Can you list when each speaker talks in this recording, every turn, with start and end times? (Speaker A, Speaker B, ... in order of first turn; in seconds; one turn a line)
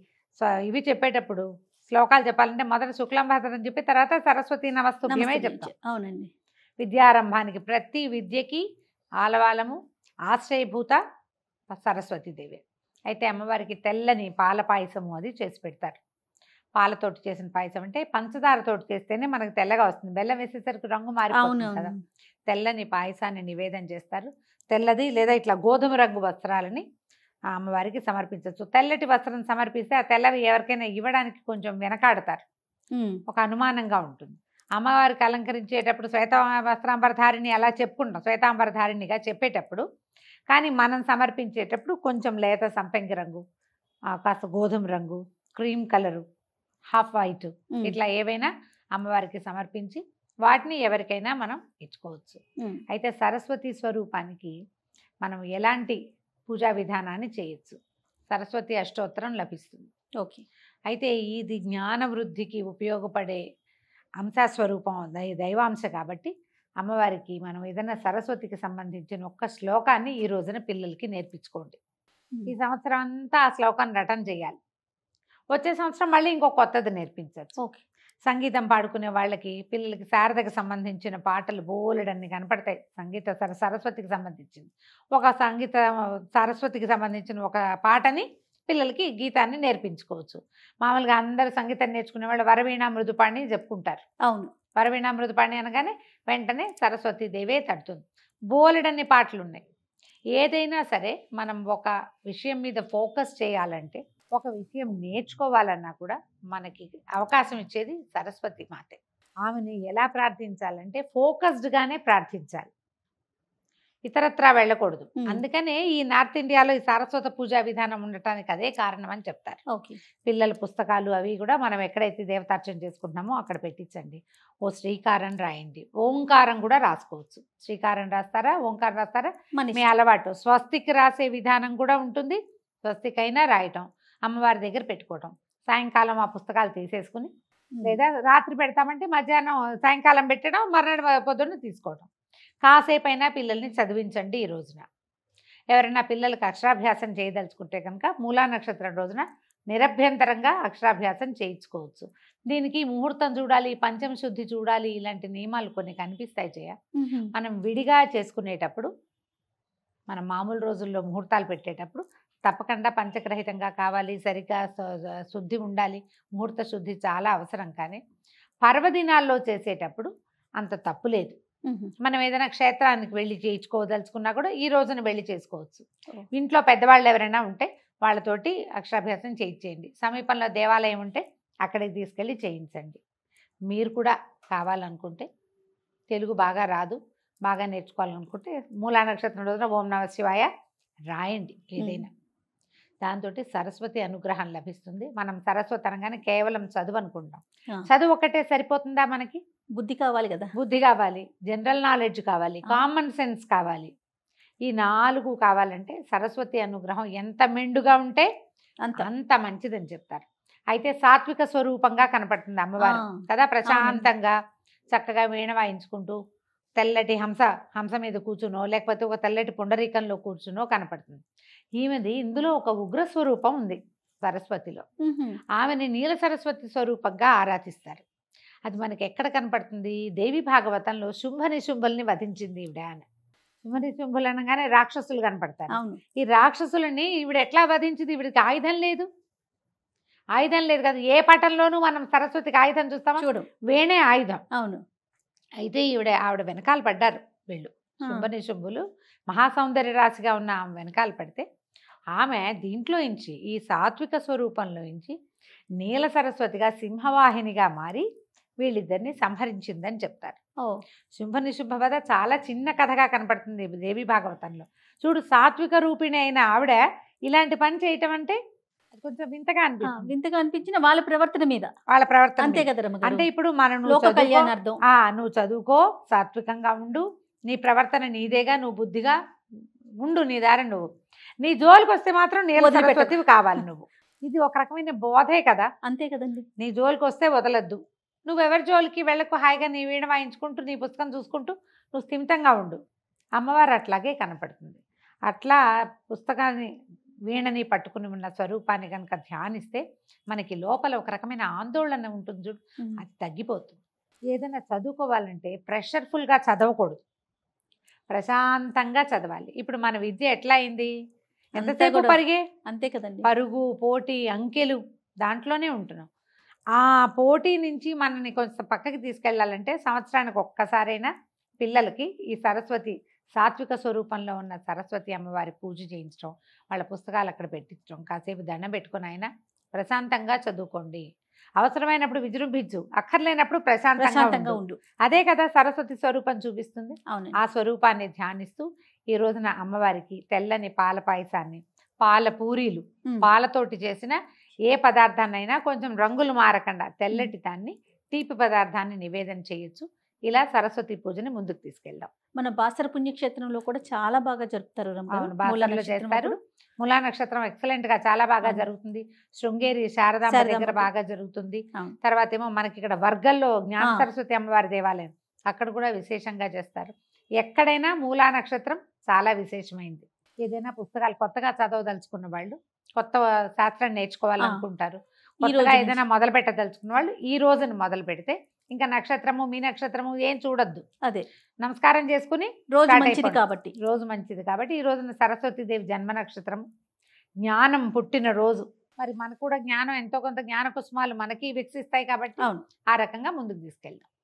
Speaker A: 0.4-5.7
Speaker B: 5.1-6.3
Speaker A: 6.8-8.6
Speaker A: 9.2-9.8
Speaker A: 10.3-11.0
Speaker A: 11.7-16.0
Speaker A: 16.8-21.9
Speaker B: 21.4-22.0
Speaker A: 22.5-26.8
Speaker A: 27.5-32.4
Speaker A: 33.3-39.8
Speaker A: 40.5-43.4
Speaker A: 44.1-46.2
Speaker A: 46.9-54.5
Speaker A: 55.2-56.0
Speaker A: 56.5-57.8
Speaker A: 58.3-59.9
Speaker A: 60.9-63.4
Speaker A: 64.2-71.8
Speaker A: 72.5-74.6
Speaker A: 75.5-77.5
Speaker A: 78.3-94.0
Speaker A: 94.8-99.6
Speaker A: 100.3-112.7
Speaker A: 114.1-119.6
Speaker B: 119.7-120.0
Speaker A: 120.2-137.3
Speaker B: 129.6-129.9
Speaker A: 137.8-142.1
Speaker A: 142.6-144.8
Speaker A: 145.7-156.7
Speaker B: 157.0-157.3
Speaker A: 157.3-158.9
Speaker A: 160.1-168.0
Speaker A: 168.6-171.3
Speaker A: 172.0-183.0
Speaker A: 183.7-185.3
Speaker A: 186.1-190.5
Speaker A: 191.1-192.1
Speaker A: 193.0-199.4
Speaker B: 199.8-200.5
Speaker A: 200.6-203.9
Speaker A: 204.7-208.3
Speaker A: 209.0-214.4
Speaker B: 212.8-213.1
Speaker B: 213.7-214.1
Speaker A: 214.9-216.2
Speaker A: 216.8-221.2
Speaker A: 221.8-224.8
Speaker B: 225.0-225.4
Speaker A: 225.6-228.0
Speaker A: 228.7-233.0
Speaker A: 233.6-239.1
Speaker B: 235.7-236.0
Speaker A: 240.4-244.4
Speaker B: 243.2-243.5
Speaker B: 244.6-244.8
Speaker A: 245.6-251.4
Speaker A: 252.2-255.2
Speaker A: 255.8-258.1
Speaker A: 258.6-260.4
Speaker A: 261.2-268.4
Speaker A: 268.9-270.1
Speaker B: 269.9-271.7
Speaker A: 271.9-279.2
Speaker B: 272.4-273.3
Speaker B: 273.9-274.8
Speaker A: 280.0-280.8
Speaker A: 281.4-285.7
Speaker B: 282.6-283.6
Speaker B: 285.9-286.5
Speaker A: 286.6-292.8
Speaker A: 293.4-295.6
Speaker A: 296.1-296.7
Speaker A: 297.3-307.0
Speaker A: 308.1-310.9
Speaker A: 311.6-312.4
Speaker B: 311.6-313.3
Speaker A: 313.2-316.1
Speaker A: 316.8-331.1
Speaker A: 331.6-352.1
Speaker B: 334.0-334.8
Speaker B: 337.1-337.4
Speaker B: 352.4-356.4
Speaker A: 355.1-380.9
Speaker B: 360.3-360.9
Speaker B: 375.4-376.0
Speaker A: 381.6-386.6
Speaker B: 382.8-383.7
Speaker A: 387.4-394.1